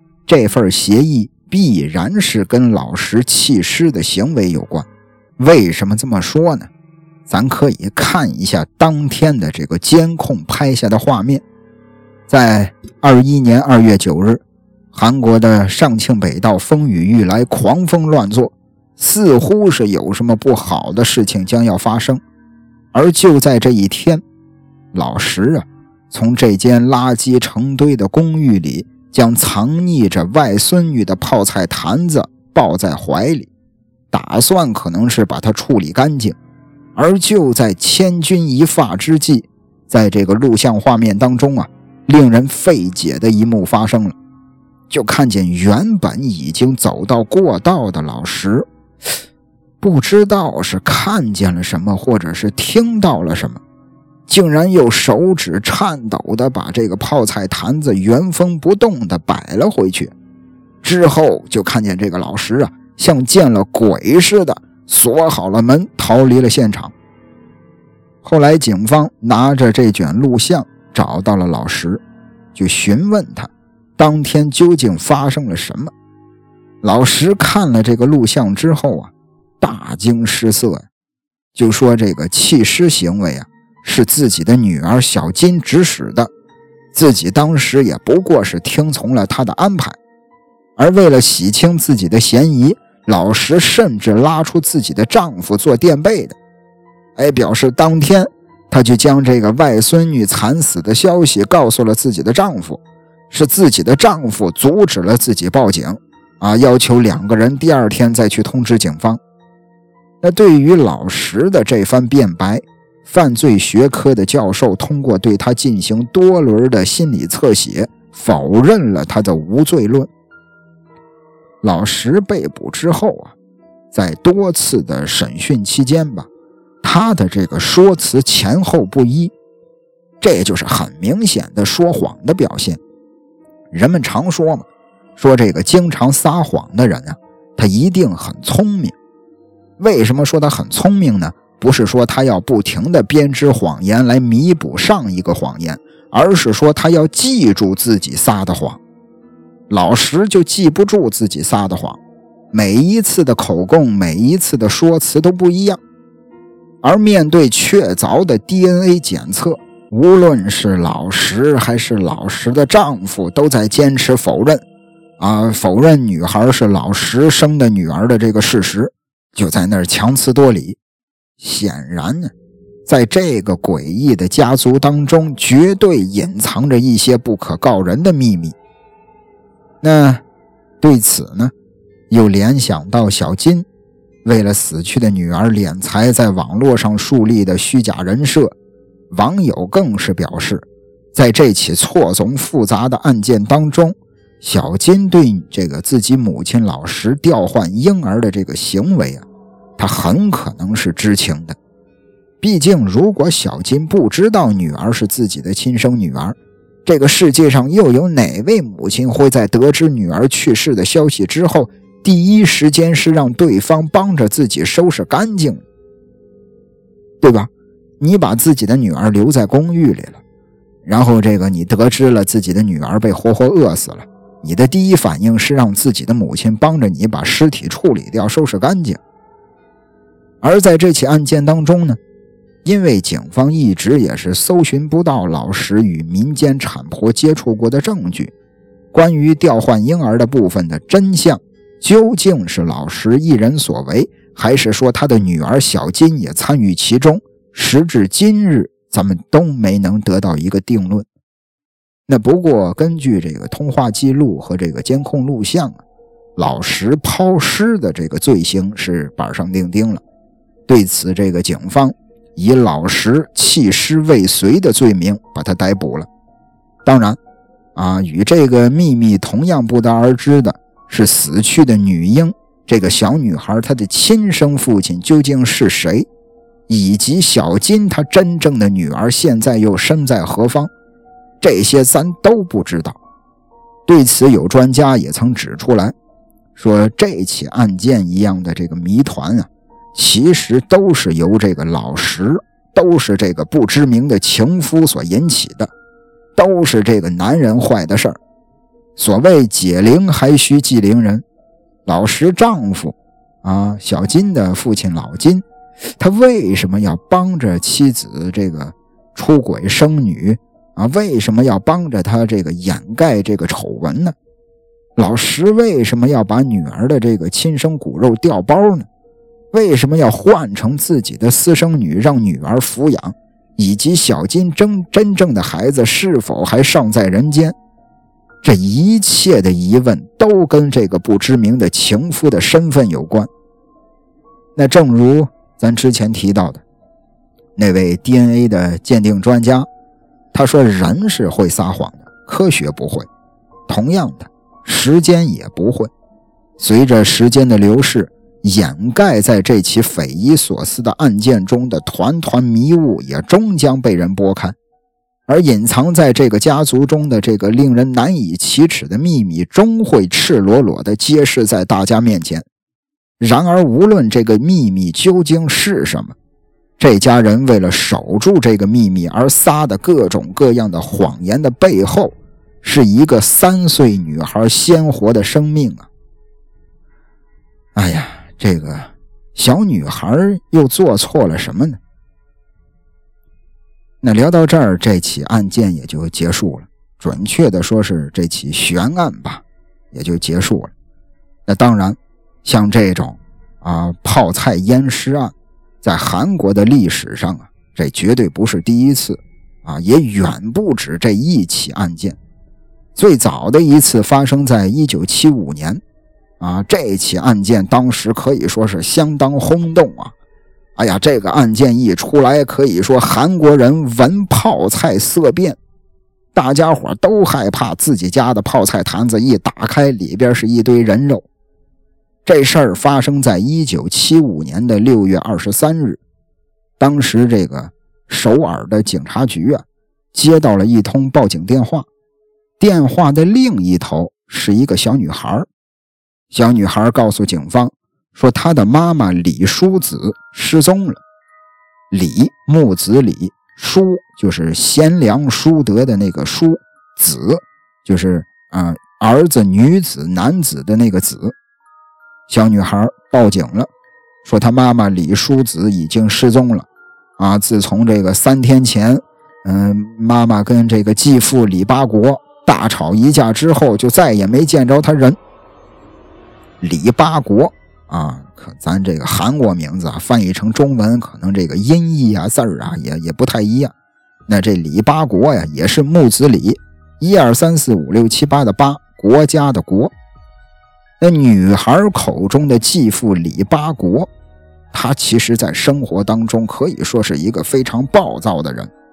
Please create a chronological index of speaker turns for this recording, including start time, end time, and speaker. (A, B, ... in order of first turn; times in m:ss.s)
0:00.3-0:04.9 A
0:05.4-0:06.7 A
0:07.3-0:11.4 A
0:12.3-0:14.4 A
0:14.9-0:22.2 A
0:22.9-0:24.2 A
0:24.9-0:33.5 A
0:34.1-0:36.4 A
0:37.0-0:44.2 A
0:44.9-0:48.7 A
0:49.8-0:53.6 A
0:54.3-1:00.1 A
1:00.8-1:06.9 A
1:08.2-1:12.0 A
1:12.6-1:15.9 A
1:16.8-1:20.9 A
1:21.6-1:26.3 A
1:26.9-1:30.0 A
1:30.8-1:36.4 A
1:37.2-1:49.2 A
1:50.2-2:00.1 A
2:01.6-2:03.4 A
2:03.9-2:06.3 A
2:06.8-2:09.3 A
2:10.2-2:12.8 A
2:13.7-2:18.9 A
2:19.8-2:28.8 A
2:29.7-2:32.0 A
2:32.5-2:35.8 A
2:36.8-2:44.6 A
2:45.2-2:50.8 A
2:51.4-2:52.3 A
2:52.9-2:58.6 A
2:59.8-3:00.2 A
3:00.8-3:01.5 A
3:02.1-3:03.7 A
3:04.2-3:08.5 A
3:09.1-3:19.2 A
3:19.8-3:21.6 A
3:22.4-3:35.6 A
3:37.2-3:40.2 A
3:40.8-3:49.0 A
3:50.4-3:52.0 A
3:52.6-3:58.3 A
3:58.9-4:11.1 A
4:12.1-4:15.8 A
4:16.4-4:20.0 A
4:20.7-4:26.1 A
4:26.8-4:27.2 A
4:27.8-4:36.1 A
4:36.7-4:40.7 A
4:41.4-4:43.0 A
4:43.9-4:45.9 A
4:46.6-4:55.7 A
4:56.4-4:58.2 A
4:59.0-5:01.2 A
5:01.9-5:05.4 A
5:06.0-5:14.2 A
5:15.0-5:18.9 A
5:19.5-5:27.6 A
5:28.4-5:33.3 A
5:34.6-5:36.6 A
5:37.6-5:39.7 A
5:40.3-5:43.1 A
5:43.7-5:45.9 A
5:46.6-5:54.6 A
5:55.3-6:02.5 A
6:03.2-6:06.2 A
6:06.8-6:15.9 A
6:17.8-6:21.8 A
6:24.0-6:30.7 A
6:31.5-6:42.2 A
6:43.0-6:45.8 A
6:46.4-6:50.1 A
6:50.8-6:55.6 A
6:56.3-7:01.2 A
7:02.2-7:06.0 A
7:06.8-7:11.9 A
7:12.6-7:15.5 A
7:16.3-7:21.0 A
7:21.9-7:31.4 A
7:32.3-7:33.7 A
7:34.2-7:36.7 A
7:37.2-7:45.2 A
7:46.6-7:53.7 A
7:54.3-7:59.9 A
8:01.0-8:04.1 A
8:04.7-8:08.7 A